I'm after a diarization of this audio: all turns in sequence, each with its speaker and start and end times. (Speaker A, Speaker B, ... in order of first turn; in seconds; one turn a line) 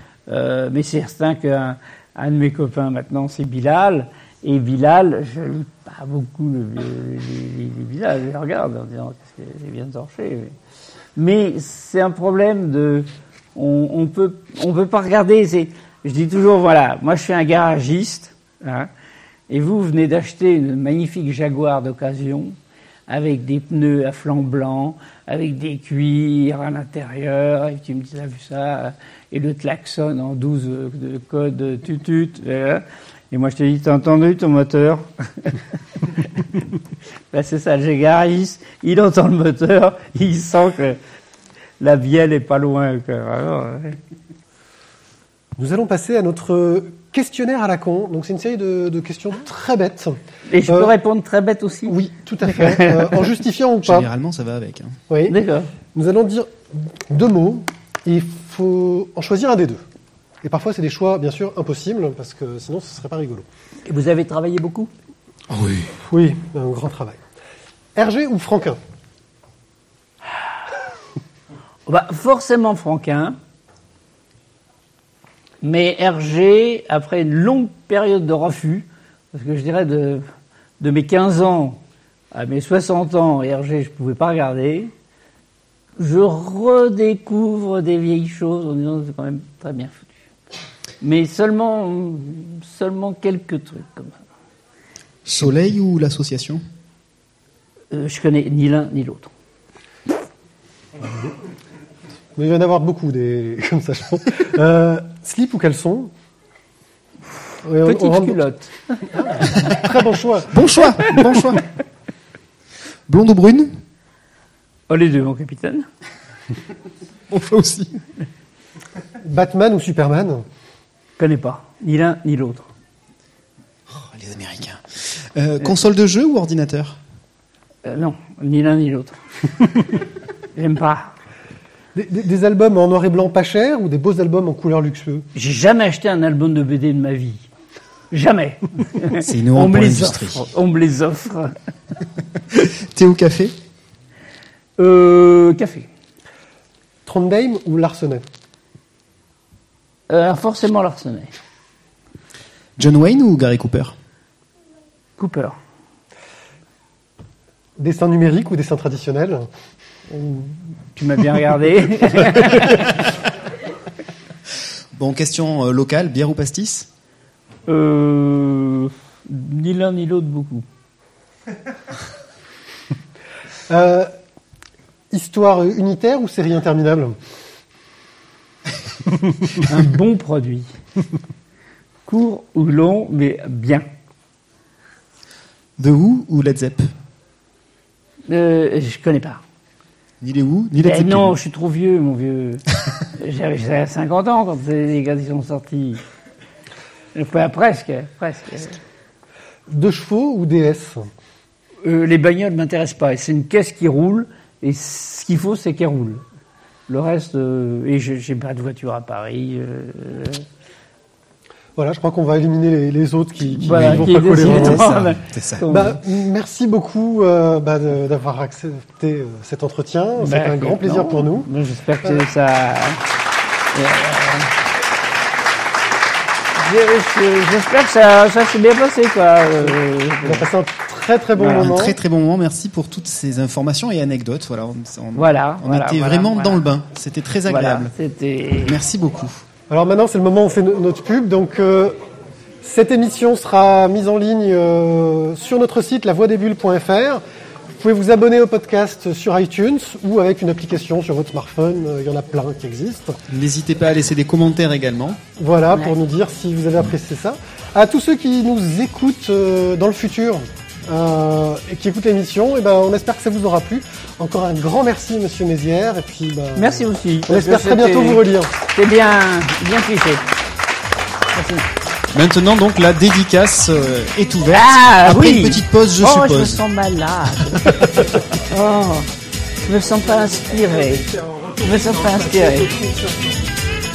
Speaker A: 0.3-10.6
Speaker A: 11.2-18.9
Speaker A: 19.5-22.6
Speaker A: 23.1-36.6
Speaker A: 37.3-41.0
Speaker A: 41.8-44.0
Speaker B: 45.6-50.9
Speaker A: 50.5-53.1
Speaker B: 51.9-54.1
Speaker C: 53.9-55.0
Speaker B: 55.1-55.4
Speaker A: 55.3-55.7
Speaker B: 55.9-59.9
Speaker B: 60.4-63.5
Speaker A: 63.9-64.9
Speaker C: 65.5-65.9
Speaker B: 66.0-67.2
Speaker B: 68.0-68.8
Speaker A: 71.9-73.4
Speaker A: 75.6-80.2
Speaker A: 80.8-81.8
Speaker A: 82.3-84.9
Speaker A: 86.0-90.1
Speaker A: 91.0-94.2
Speaker C: 95.2-96.6
Speaker A: 97.9-99.3
Speaker B: 102.4-106.1
Speaker B: 107.6-108.4
Speaker A: 107.8-109.8
Speaker B: 109.1-111.3
Speaker C: 110.5-111.7
Speaker C: 113.1-113.8
Speaker A: 114.9-115.9
Speaker C: 117.3-118.0
Speaker B: 119.2-120.5
Speaker A: 121.2-122.7
Speaker C: 123.9-127.0
Speaker A: 127.8-129.9
Speaker A: 130.6-131.1
Speaker B: 131.9-135.3
Speaker A: 135.3-137.5
Speaker A: 138.1-141.6
Speaker C: 139.2-140.5
Speaker C: 142.5-143.5
Speaker A: 144.8-145.9
Speaker B: 147.1-148.2
Speaker A: 150.1-151.3
Speaker C: 152.8-153.9
Speaker A: 155.2-155.6
Speaker B: 157.8-159.5
Speaker B: 160.1-160.5
Speaker A: 160.9-162.8
Speaker C: 164.9-166.9
Speaker A: 167.7-170.7
Speaker B: 173.7-174.1
Speaker B: 175.1-177.2
Speaker A: 179.6-180.7
Speaker A: 182.1-183.9
Speaker C: 185.8-186.9
Speaker A: 188.3-189.4
Speaker C: 190.2-191.3
Speaker A: 190.8-196.0
Speaker A: 197.1-198.8
Speaker B: 199.7-201.1
Speaker A: 201.8-206.2
Speaker A: 206.9-210.4
Speaker B: 211.8-215.0
Speaker A: 213.5-216.0
Speaker C: 213.7-215.7
Speaker B: 215.7-221.5
Speaker A: 220.2-223.1
Speaker A: 223.7-224.6
Speaker A: 226.6-230.5
Speaker B: 230.2-232.0
Speaker A: 231.4-231.7
Speaker C: 231.5-237.9
Speaker A: 235.2-236.6
Speaker A: 237.5-238.8
Speaker C: 238.6-239.4
Speaker B: 239.7-242.0
Speaker B: 242.6-247.2
Speaker B: 247.8-253.2
Speaker C: 253.3-255.2
Speaker B: 255.4-268.6
Speaker A: 266.6-270.2
Speaker A: 271.3-271.7
Speaker C: 272.1-276.6
Speaker A: 274.5-279.1
Speaker A: 279.6-282.7
Speaker B: 281.0-283.4